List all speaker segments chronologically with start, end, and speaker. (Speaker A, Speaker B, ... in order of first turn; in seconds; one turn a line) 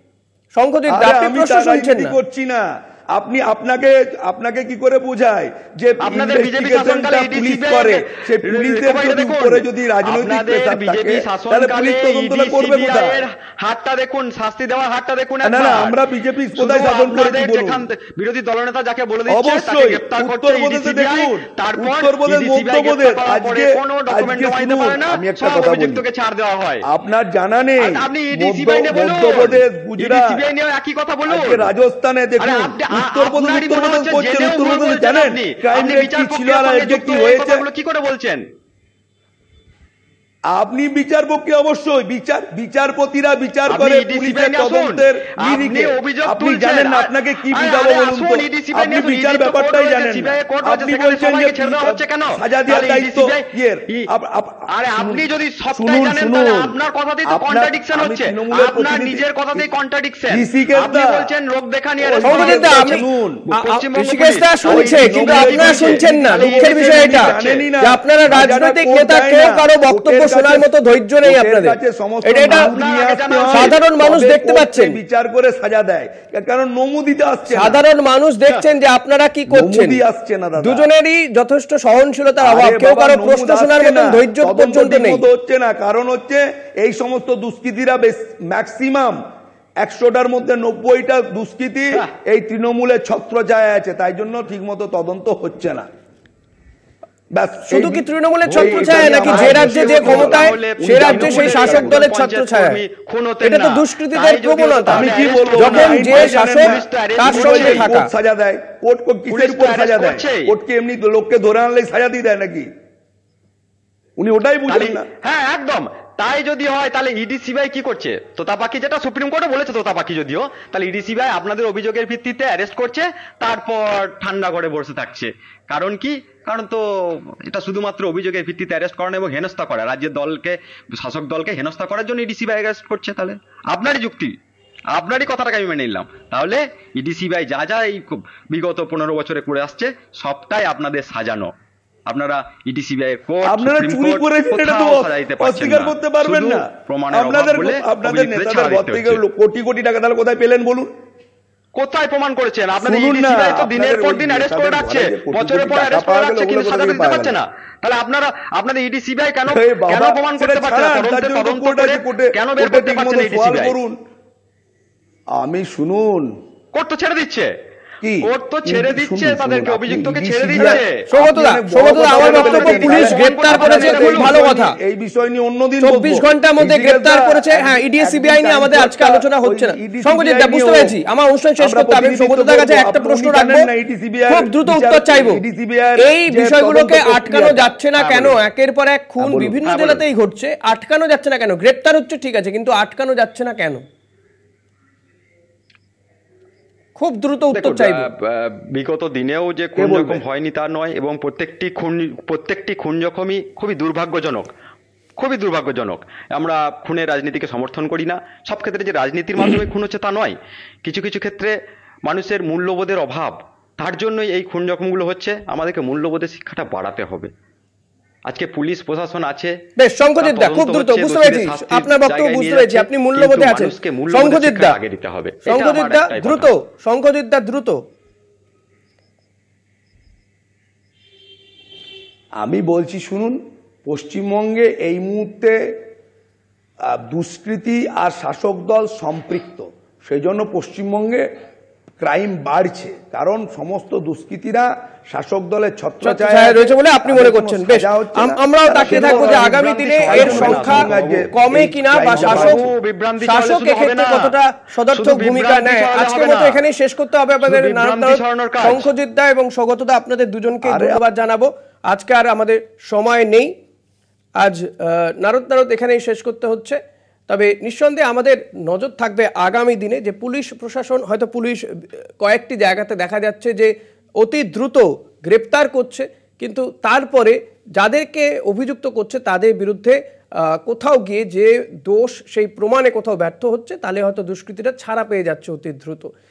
Speaker A: 0.6-2.2
Speaker B: 0.9-13.2
Speaker C: 6.0-16.0
Speaker B: 15.4-17.8
Speaker C: 16.6-26.9
Speaker B: 19.3-26.0
Speaker B: 26.9-30.4
Speaker C: 27.8-31.7
Speaker B: 31.3-37.6
Speaker C: 32.4-38.4
Speaker B: 40.5-56.8
Speaker C: 43.7-54.1
Speaker C: 54.7-62.9
Speaker B: 57.3-59.7
Speaker B: 60.3-61.3
Speaker B: 62.0-63.4
Speaker A: 62.2-72.7
Speaker C: 63.5-67.7
Speaker B: 64.7-70.7
Speaker B: 71.2-77.8
Speaker C: 72.5-73.8
Speaker A: 73.5-75.0
Speaker A: 77.5-80.0
Speaker B: 79.5-80.9
Speaker A: 80.6-85.2
Speaker B: 82.4-89.2
Speaker B: 89.8-95.9
Speaker B: 97.3-102.1
Speaker A: 97.7-102.8
Speaker C: 98.5-107.9
Speaker A: 103.4-108.1
Speaker B: 104.9-112.7
Speaker C: 109.3-110.5
Speaker B: 114.2-115.1
Speaker C: 114.7-134.3
Speaker C: 134.9-141.5
Speaker C: 142.1-149.2
Speaker B: 143.5-150.9
Speaker C: 151.8-163.8
Speaker B: 152.8-157.4
Speaker B: 159.5-164.0
Speaker B: 165.4-166.4
Speaker C: 166.7-167.5
Speaker B: 168.0-180.9
Speaker C: 168.2-171.0
Speaker A: 170.6-174.8
Speaker C: 172.0-174.4
Speaker A: 175.8-183.7
Speaker B: 181.6-187.7
Speaker A: 184.3-185.4
Speaker A: 186.0-193.8
Speaker C: 188.0-188.3
Speaker B: 189.2-189.7
Speaker C: 189.7-190.0
Speaker A: 197.0-198.1
Speaker C: 197.6-204.5
Speaker B: 199.8-200.2
Speaker C: 205.2-211.5
Speaker C: 212.1-217.3
Speaker C: 218.3-219.6
Speaker A: 219.8-224.8
Speaker C: 220.2-226.5
Speaker A: 225.5-227.8
Speaker B: 232.4-235.8
Speaker B: 236.8-241.3
Speaker B: 242.0-252.7
Speaker A: 246.0-252.6
Speaker C: 248.8-251.3
Speaker C: 252.2-254.3
Speaker A: 253.2-263.5
Speaker C: 254.9-256.6
Speaker C: 257.4-258.9
Speaker B: 260.6-261.0
Speaker A: 264.4-271.6
Speaker A: 272.2-280.0
Speaker A: 280.6-286.1